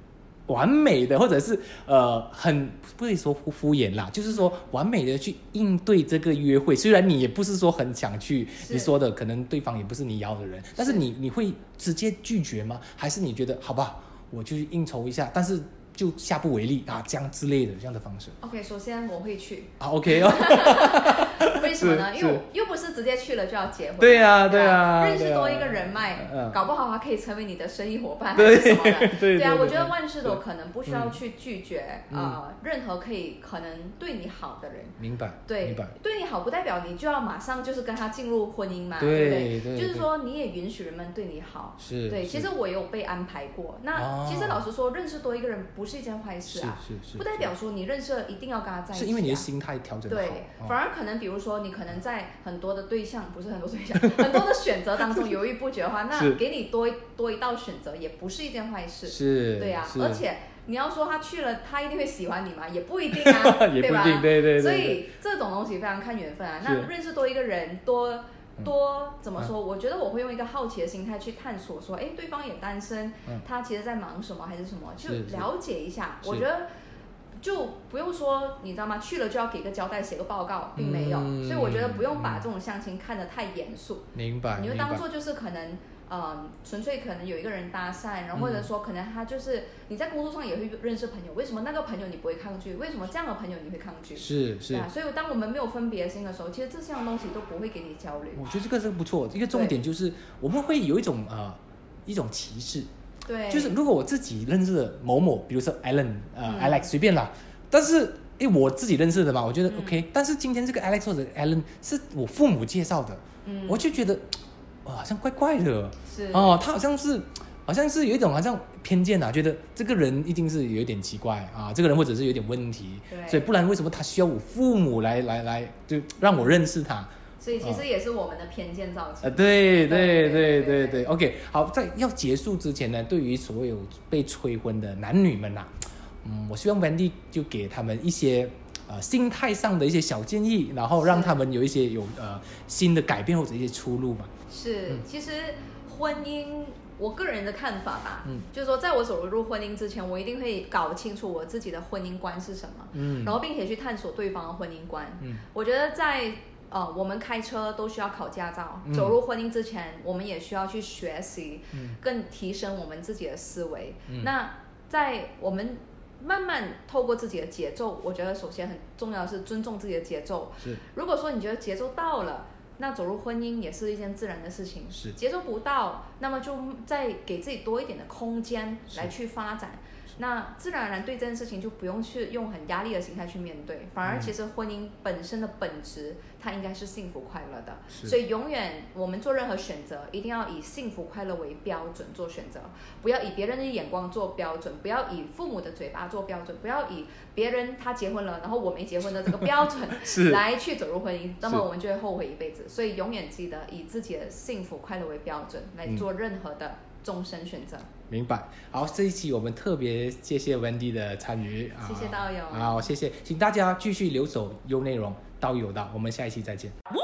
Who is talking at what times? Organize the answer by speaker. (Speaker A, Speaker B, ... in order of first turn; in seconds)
Speaker A: 0.5-18.4, 19.8-22.4, 24.0-26.6, 28.4-31.2, 32.1-32.4, 35.0-35.9, 39.0-40.1, 41.8-42.5, 43.9-44.6, 46.5-47.5, 48.9-50.8, 54.0-54.3, 56.1-56.4, 59.1-60.2, 63.1-65.0, 66.6-66.9, 75.0-75.5, 80.8-82.5, 84.1-85.0, 88.3-88.7, 94.2-94.9, 98.3-102.9, 103.5-127.8, 129.2-144.3, 152.9-153.4, 158.8-159.2, 161.7-162.0, 184.0-184.3, 199.2-200.4, 208.1-216.7
Speaker B: 8.6-8.9, 18.4-34.9, 35.5-49.5, 50.1-76.7, 77.4-98.4, 103.2-103.8, 106.5-106.9, 109.7-110.0, 113.4-113.8, 116.0-116.6, 123.1-123.5, 127.4-131.1, 141.0-141.4, 144.5-207.9, 211.8-212.8